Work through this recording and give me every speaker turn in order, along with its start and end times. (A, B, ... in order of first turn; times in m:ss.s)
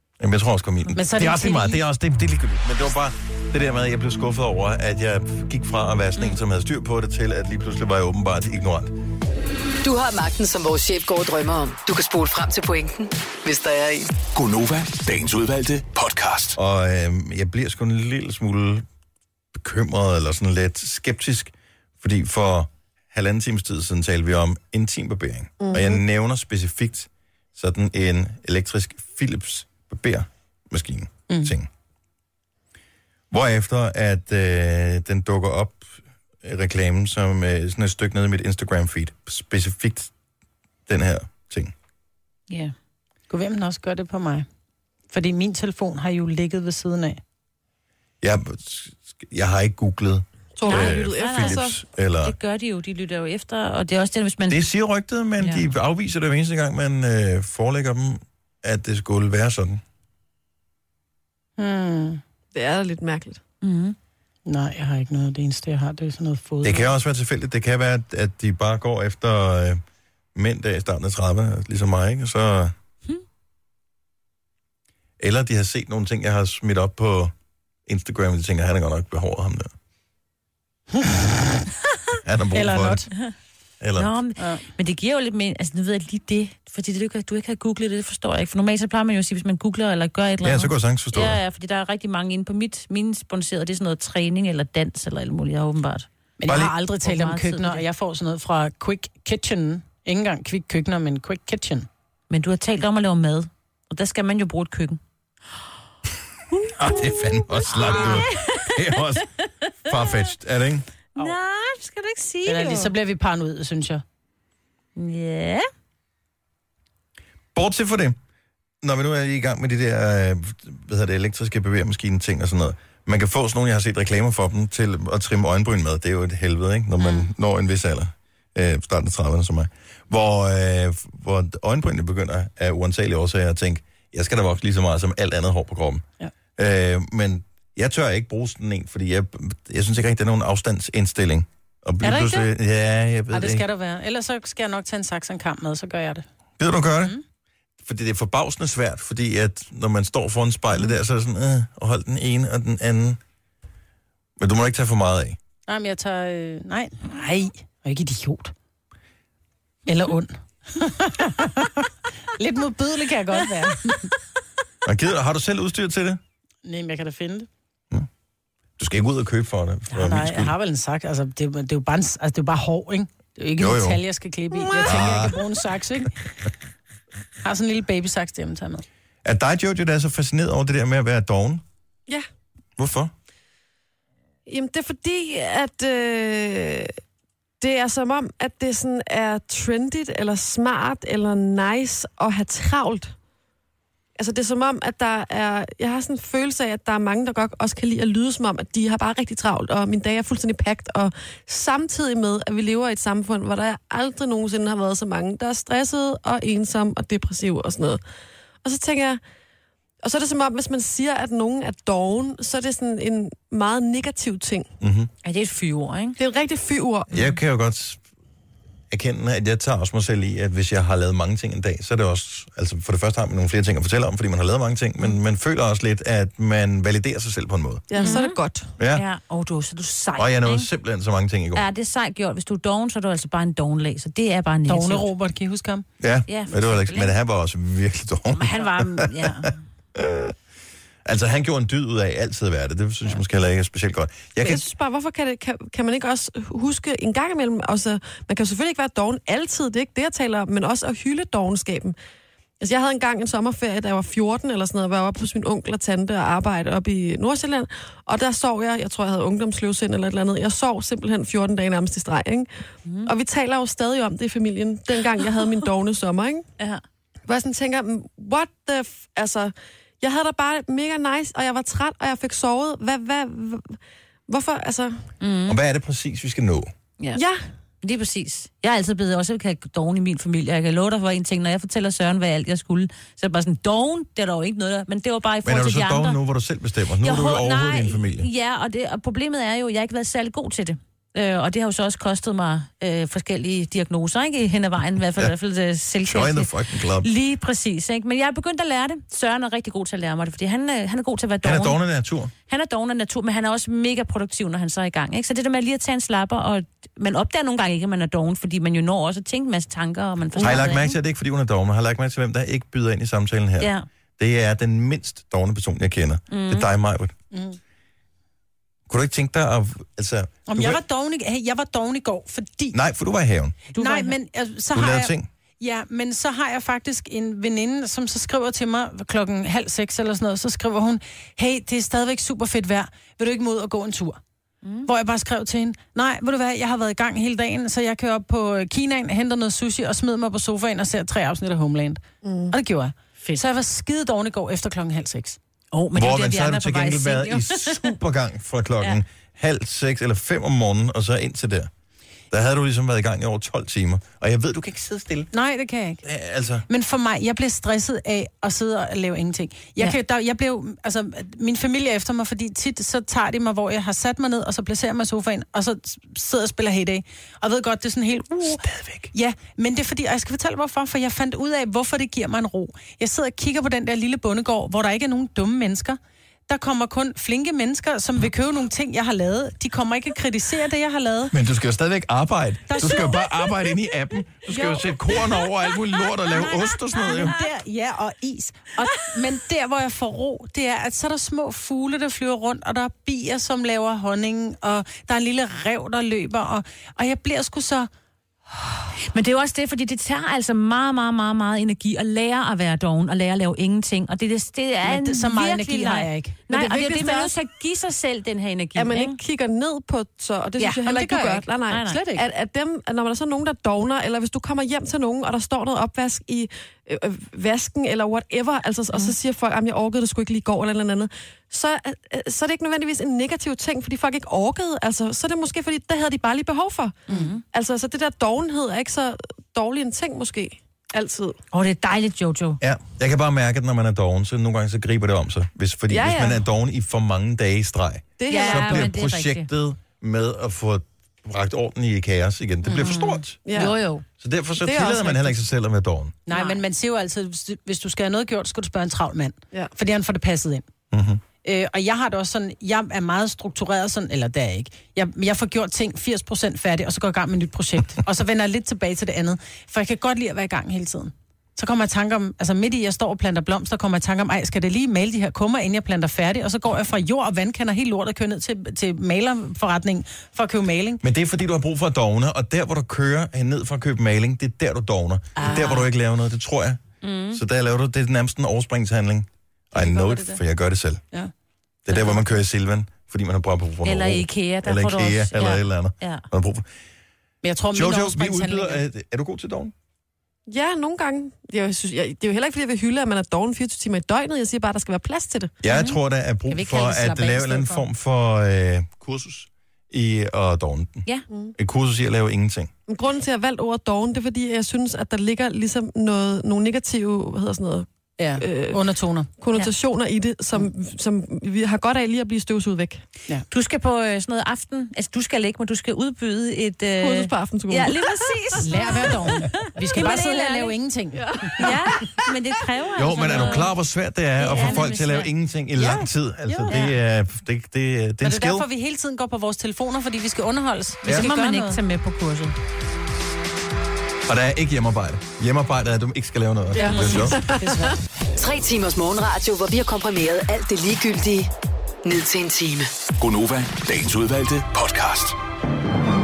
0:00.2-0:08.9 A
0:00.9-0:01.8 B
0:09.8-0:14.1 C
0:14.3-0:16.6 D
0:16.6-0:18.8 A
0:19.5-0:31.7 A
0:25.6-0:26.0 E
0:33.3-0:40.1 A
0:40.9-0:41.7 A
0:43.3-0:44.4 B
0:45.1-0:47.2 B
0:48.2-0:52.3 A
0:50.6-0:51.8 E
0:50.6-0:51.6 F
0:52.2-0:54.6 F
0:54.5-0:59.8 A
0:55.4-0:55.6 F
1:01.6-1:02.2 B
1:02.5-1:03.4 E
1:03.6-1:04.0 F
1:04.4-1:06.9 B
1:06.6-1:09.8 A
1:10.3-1:12.7 A
1:15.2-1:17.3 A
1:17.9-1:19.7 A
1:21.0-1:21.5 B
1:22.2-1:23.1 A
1:22.5-1:23.1 B
1:23.8-1:24.1 A
1:24.0-1:36.1 F
1:24.4-1:24.6 B
1:30.4-1:31.4 A
1:36.4-1:41.9 B
1:36.5-1:36.7 A
1:37.0-1:37.8 F
1:42.3-1:45.0 F
1:46.8-1:49.3 A
1:47.7-1:48.8 F
1:49.8-1:50.9 A
1:49.9-1:50.2 F
1:51.1-1:52.9 F
1:52.4-1:54.0 B
1:55.0-1:55.6 F
1:57.6-1:58.2 A
1:58.8-2:16.0 A
2:07.0-2:07.3 F
2:16.6-2:23.6 A
2:22.0-2:22.5 B
2:23.3-2:26.3 B
2:26.6-2:27.2 A
2:27.8-2:33.2 A
2:34.4-2:35.4 A
2:35.7-2:38.5 B
2:39.9-2:44.1 B
2:44.8-2:46.2 A
2:46.6-2:47.5 B
2:48.8-2:50.5 A
2:49.9-2:56.2 B
2:53.6-2:54.0 A
2:54.8-2:55.4 A
2:57.4-2:58.8 B
2:59.2-3:01.6 A
3:02.8-3:03.1 A
3:04.5-3:06.9 E
3:07.6-3:13.1 E
3:14.2-3:28.0 E
3:28.6-3:29.2 E
3:30.0-3:34.7 E
3:34.8-3:35.1 A
3:35.2-3:36.2 F
3:36.2-3:37.1 E
3:37.1-3:38.0 A
3:38.9-3:47.9 A
3:47.9-3:48.7 E
3:48.0-3:48.4 F
3:48.8-3:49.0 A
3:48.9-3:50.7 F
3:50.2-3:51.6 A
3:51.5-3:55.1 F
3:54.7-3:55.9 B
3:56.0-3:59.4 A
3:56.3-3:57.1 F
3:58.3-3:59.6 F
3:59.9-4:00.4 A
4:01.0-4:04.6 A
4:04.4-4:11.9 E
4:12.6-4:22.5 E
4:22.8-4:23.1 F
4:23.0-4:26.4 E
4:27.3-4:33.8 E
4:34.3-4:35.0 E
4:35.2-4:35.6 F
4:35.4-4:36.7 A
4:37.1-4:37.4 E
4:37.8-4:46.2 F
4:45.4-4:48.3 A
4:47.0-5:01.8 F
4:56.0-4:57.1 A
5:01.4-5:02.3 A
5:02.5-5:11.0 F
5:10.4-5:17.1 A
5:13.6-5:13.9 F
5:16.3-5:16.7 F
5:17.3-5:17.6 B
5:18.9-5:20.8 A
5:20.4-5:22.8 B
5:22.7-5:23.6 A
5:23.7-5:24.2 F
5:23.8-5:34.2 B
5:24.7-5:25.3 A
5:34.6-5:34.9 F
5:34.9-5:45.4 B
5:42.2-5:42.5 E
5:45.7-5:48.0 F
5:45.9-5:51.7 A
5:52.3-5:55.3 A
5:55.3-5:56.0 B
5:56.0-5:56.6 A
5:56.7-6:21.3 B
6:08.4-6:09.1 A
6:21.3-6:27.4 A
6:22.7-6:23.5 B
6:26.4-6:37.9 B
6:27.1-6:27.5 F
6:39.1-6:49.2 F
6:44.8-6:46.5 B
6:46.5-6:47.3 E
6:48.8-7:11.4 E
6:50.6-6:51.1 F
6:50.8-6:52.2 B
6:51.7-6:52.0 F
7:07.1-7:07.4 F
7:11.5-7:12.6 F
7:12.6-7:23.4 A
7:15.9-7:16.4 E
7:18.2-7:18.9 E
7:18.3-7:19.5 F
7:22.7-7:23.8 F
7:23.4-7:23.8 E
7:23.6-7:24.0 B
7:24.2-7:26.2 A
7:24.6-7:25.4 E
7:26.3-7:30.6 B
7:26.3-7:26.6 F
7:30.9-7:31.2 A
7:31.4-7:51.0 B
7:51.0-8:01.0 A
7:55.4-7:55.8 B
7:55.4-7:55.9 F
7:57.0-7:57.4 F
7:59.7-8:00.4 B
8:01.8-8:06.7 A
8:01.9-8:02.4 F
8:03.8-8:06.2 F
8:07.4-8:08.8 B
8:07.7-8:09.7 A
8:10.5-8:15.5 E
8:15.6-8:21.1 A
8:15.6-8:16.0 F
8:16.5-8:17.8 B
8:21.6-8:22.7 A
8:22.9-8:27.9 E
8:28.2-8:29.3 B
8:28.4-8:28.8 E
8:29.4-8:33.0 E
8:33.5-8:40.7 F
8:37.0-8:39.1 E
8:38.6-8:41.6 B
8:41.1-8:42.3 E
8:41.6-8:43.7 F
8:42.9-8:48.6 A
8:44.4-8:45.3 F
8:46.5-8:46.9 B
8:48.2-8:51.8 B
8:51.0-8:52.6 F
8:54.3-8:57.4 A
8:56.8-8:57.9 E
8:56.8-8:58.0 B
8:56.9-8:57.2 F
8:58.4-9:01.5 C
9:02.0-9:02.9 C
9:03.2-9:05.4 D